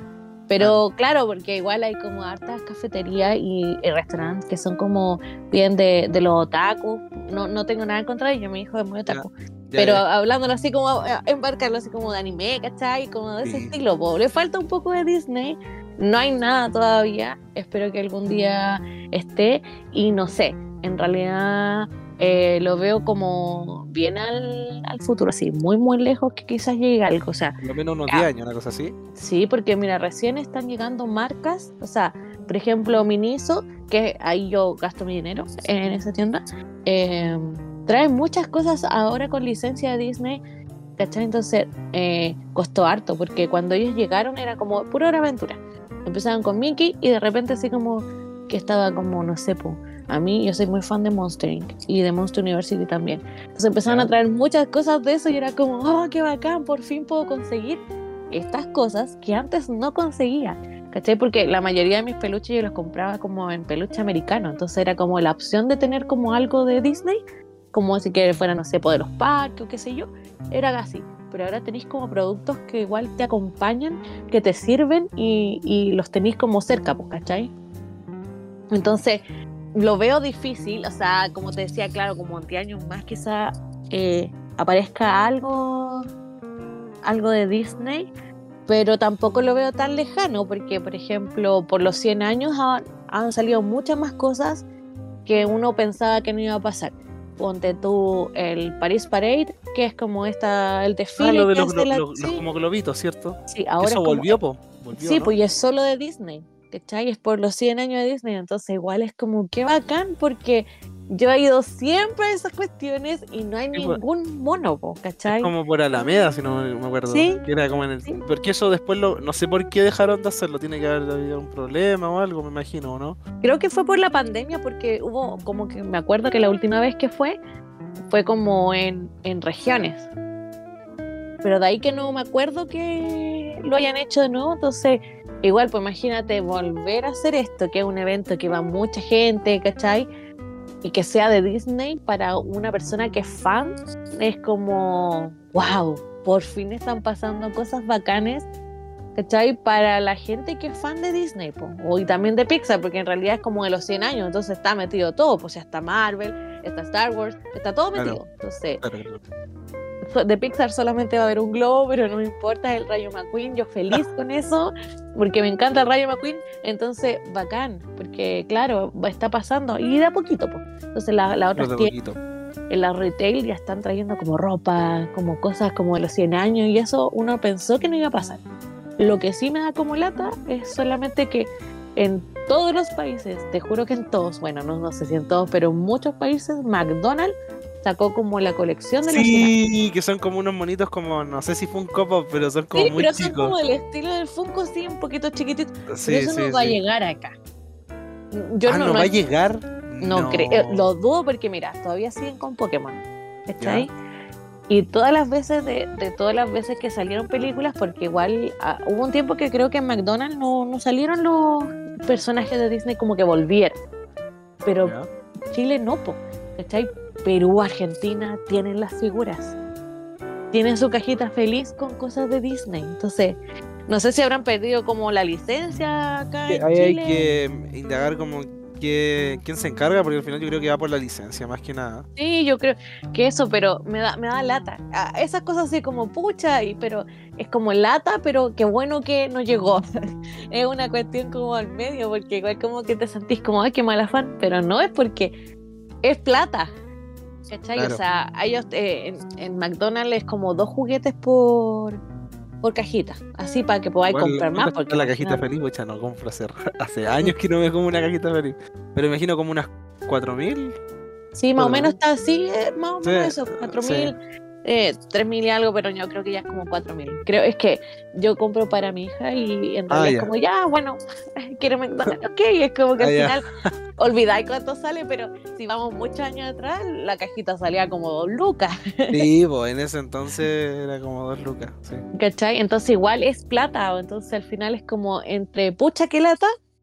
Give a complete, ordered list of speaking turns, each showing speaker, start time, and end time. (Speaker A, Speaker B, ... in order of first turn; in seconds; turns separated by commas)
Speaker A: 0.5-27.6, Speaker B: 9.1-10.0, Speaker B: 13.4-13.7, Speaker B: 27.6-28.9, Speaker A: 29.1-40.4, Speaker A: 41.0-67.2, Speaker B: 53.9-54.1, Speaker A: 67.7-77.5, Speaker A: 78.7-79.2, Speaker A: 79.7-86.0, Speaker A: 87.0-88.1, Speaker A: 88.7-94.6, Speaker A: 95.2-102.4, Speaker B: 101.2-105.3, Speaker A: 103.5-104.4, Speaker A: 104.9-115.5, Speaker B: 113.7-114.0, Speaker B: 115.3-123.2, Speaker A: 117.1-117.4, Speaker A: 123.4-127.4, Speaker A: 128.1-130.1, Speaker A: 131.4-140.1, Speaker A: 140.8-148.5, Speaker A: 149.2-158.8, Speaker B: 157.9-158.2, Speaker B: 158.8-159.2, Speaker A: 160.1-171.9, Speaker B: 171.6-172.2, Speaker A: 172.7-178.4, Speaker A: 179.0-189.5, Speaker B: 189.1-193.5, Speaker A: 192.7-197.3, Speaker B: 195.9-196.8, Speaker A: 198.3-199.1, Speaker B: 198.7-200.9, Speaker A: 200.0-203.9, Speaker B: 203.6-203.9, Speaker A: 204.7-213.8, Speaker A: 214.6-214.9, Speaker B: 214.8-215.1, Speaker A: 215.5-219.6, Speaker A: 220.5-227.3, Speaker B: 226.5-232.1, Speaker A: 232.2-239.8, Speaker A: 240.5-245.3, Speaker A: 246.0-246.7, Speaker A: 247.5-252.0, Speaker B: 247.8-248.0, Speaker A: 252.6-255.4, Speaker B: 254.1-260.8, Speaker A: 261.3-273.4, Speaker B: 261.6-261.9, Speaker B: 263.0-264.1, Speaker B: 269.9-270.3, Speaker B: 273.0-273.7, Speaker A: 274.0-279.3, Speaker B: 279.1-282.0, Speaker A: 282.1-286.5